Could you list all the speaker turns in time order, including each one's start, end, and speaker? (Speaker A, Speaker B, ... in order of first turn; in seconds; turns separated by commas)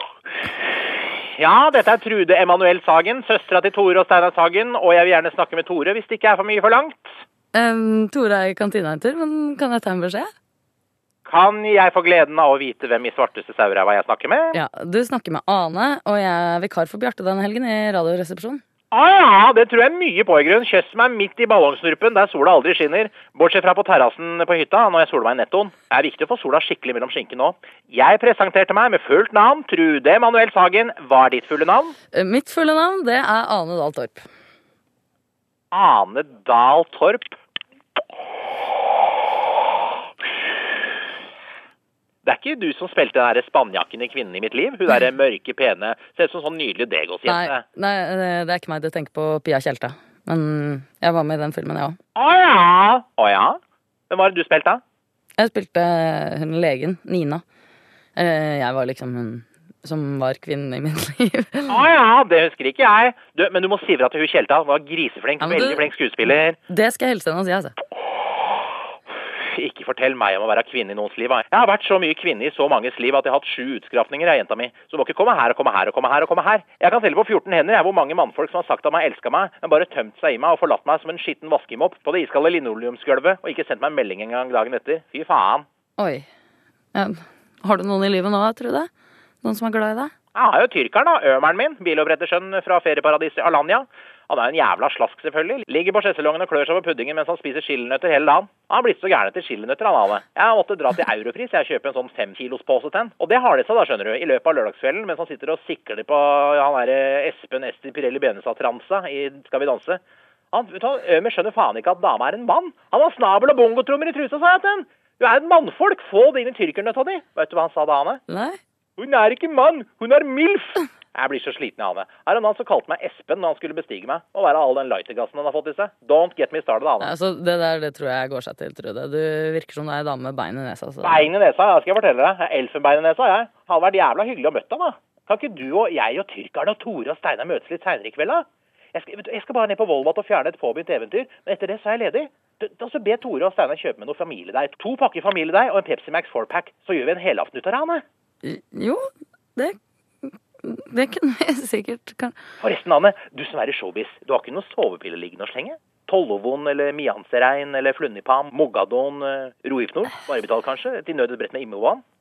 Speaker A: 1.4-7.2, Speaker B: 7.5-10.3, Speaker A: 11.2-14.6, Speaker B: 14.5-18.6, Speaker A: 18.9-32.0, Speaker B: 32.1-34.2, Speaker A: 35.7-37.4, Speaker A: 42.2-47.6, Speaker B: 47.3-52.0, Speaker A: 52.2-53.6, Speaker A: 54.1-54.8, Speaker B: 55.4-57.4, Speaker B: 58.2-61.9, Speaker A: 61.7-66.6, Speaker B: 65.4-67.8, Speaker A: 69.4-85.7, Speaker B: 86.0-86.3, Speaker B: 86.9-88.9, Speaker B: 89.4-90.1, Speaker A: 90.3-110.0, Speaker A: 110.5-118.2, Speaker B: 118.3-118.6, Speaker A: 119.0-127.2, Speaker B: 127.0-131.3, Speaker A: 131.0-148.0, Speaker B: 148.4-152.4, Speaker A: 152.6-162.0